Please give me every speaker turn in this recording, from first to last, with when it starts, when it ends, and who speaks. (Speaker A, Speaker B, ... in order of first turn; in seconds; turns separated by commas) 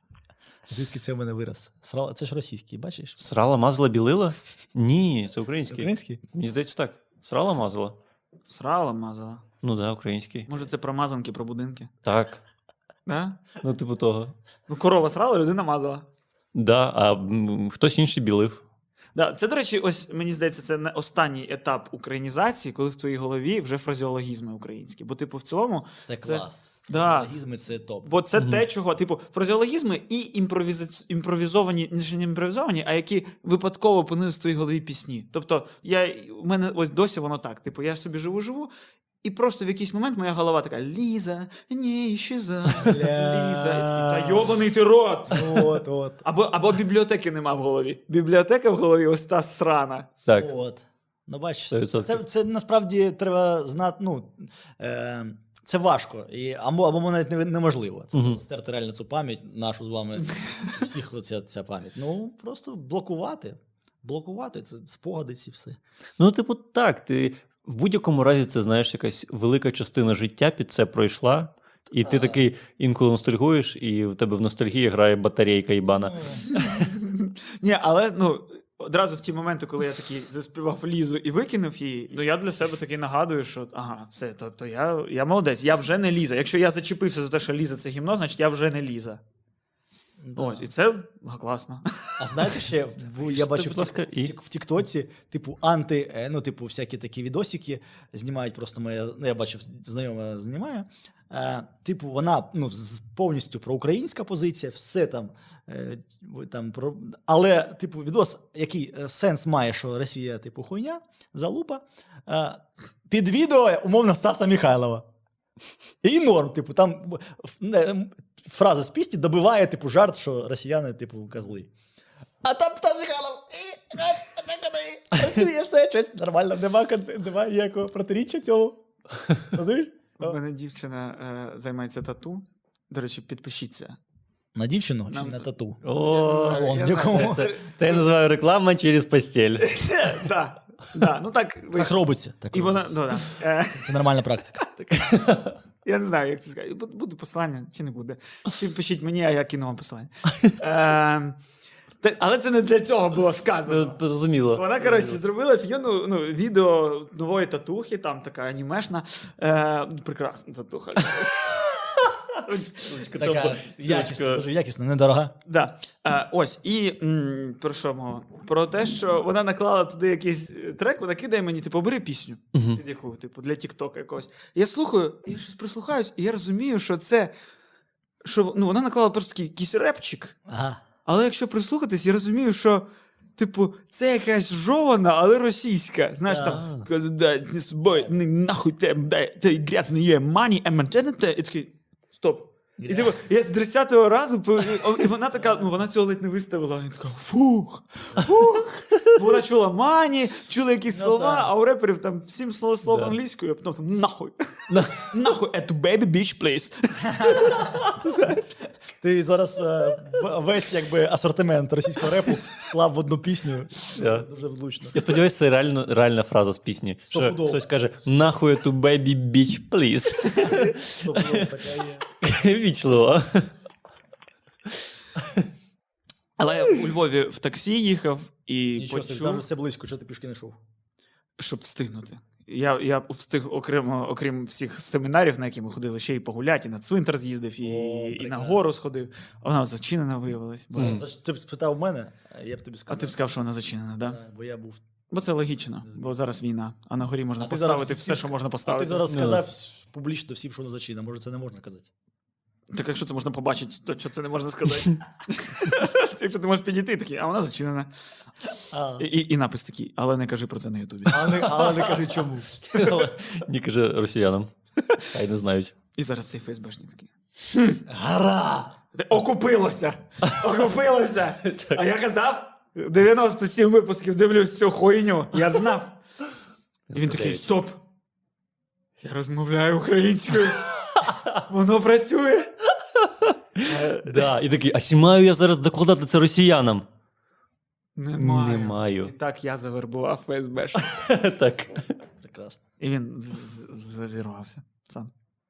Speaker A: 0.7-3.2, Speaker B: 3.2-8.0, Speaker A: 5.7-6.2, Speaker C: 8.5-9.4, Speaker B: 9.6-10.5, Speaker C: 10.5-11.9, Speaker B: 12.0-12.4, Speaker C: 13.1-13.4, Speaker B: 13.6-14.3, Speaker C: 14.7-16.0, Speaker B: 16.5-18.6, Speaker C: 19.1-27.3, Speaker A: 26.1-28.1, Speaker C: 28.0-38.7, Speaker B: 28.4-28.6, Speaker C: 39.2-50.1, Speaker A: 42.8-44.5, Speaker A: 45.3-46.2, Speaker B: 50.2-50.5, Speaker A: 50.3-65.8, Speaker B: 51.7-52.2, Speaker B: 58.1-58.4, Speaker B: 66.2-76.7, Speaker A: 72.0-72.4, Speaker A: 76.0-76.6, Speaker C: 76.5-89.2, Speaker A: 90.2-90.7, Speaker C: 90.4-92.6, Speaker A: 92.2-115.0, Speaker B: 93.2-94.3, Speaker A: 116.0-121.7, Speaker A: 122.4-128.8, Speaker A: 129.3-130.4, Speaker C: 130.2-134.0, Speaker A: 134.5-137.5, Speaker C: 135.1-138.1, Speaker B: 135.8-139.7, Speaker C: 139.6-142.0, Speaker A: 141.7-143.0, Speaker C: 142.5-144.1, Speaker A: 143.7-144.7, Speaker B: 144.9-145.6, Speaker C: 145.8-151.4, Speaker C: 152.0-154.0, Speaker B: 153.7-155.2, Speaker C: 154.5-161.7, Speaker B: 162.3-164.4, Speaker C: 162.4-163.1, Speaker A: 163.1-165.3, Speaker C: 165.4-177.3, Speaker B: 172.5-172.8, Speaker C: 178.2-180.4, Speaker A: 180.5-180.8, Speaker C: 181.1-182.8, Speaker C: 183.4-208.4, Speaker A: 186.2-186.6, Speaker B: 186.4-186.8, Speaker A: 192.8-193.1, Speaker A: 200.9-201.5, Speaker B: 202.8-203.2, Speaker B: 204.7-205.1, Speaker A: 207.1-207.8, Speaker A: 209.0-215.1, Speaker B: 213.9-214.3, Speaker B: 214.9-221.5, Speaker A: 217.1-217.6, Speaker A: 220.5-222.0, Speaker B: 222.2-223.5, Speaker B: 225.2-225.5, Speaker C: 226.4-229.4, Speaker A: 228.8-230.6, Speaker C: 231.4-241.0, Speaker A: 237.6-238.6, Speaker A: 240.7-243.1, Speaker B: 240.8-241.0, Speaker C: 242.9-244.2, Speaker A: 244.0-244.8, Speaker C: 245.1-249.1, Speaker A: 247.4-251.9, Speaker B: 249.1-249.4, Speaker C: 252.7-257.9, Speaker A: 258.7-259.1, Speaker C: 259.0-262.0, Speaker A: 261.1-262.5, Speaker C: 262.7-263.0, Speaker B: 262.7-265.7, Speaker C: 265.9-267.8, Speaker A: 267.9-268.8, Speaker C: 268.9-276.0, Speaker B: 271.4-271.8, Speaker B: 276.9-277.5, Speaker C: 276.9-277.8, Speaker C: 279.0-282.5, Speaker B: 281.0-281.4, Speaker B: 283.0-286.9, Speaker C: 283.6-284.3, Speaker C: 287.9-290.9, Speaker B: 288.2-289.1, Speaker B: 290.7-291.9, Speaker A: 292.2-292.6, Speaker C: 292.8-295.1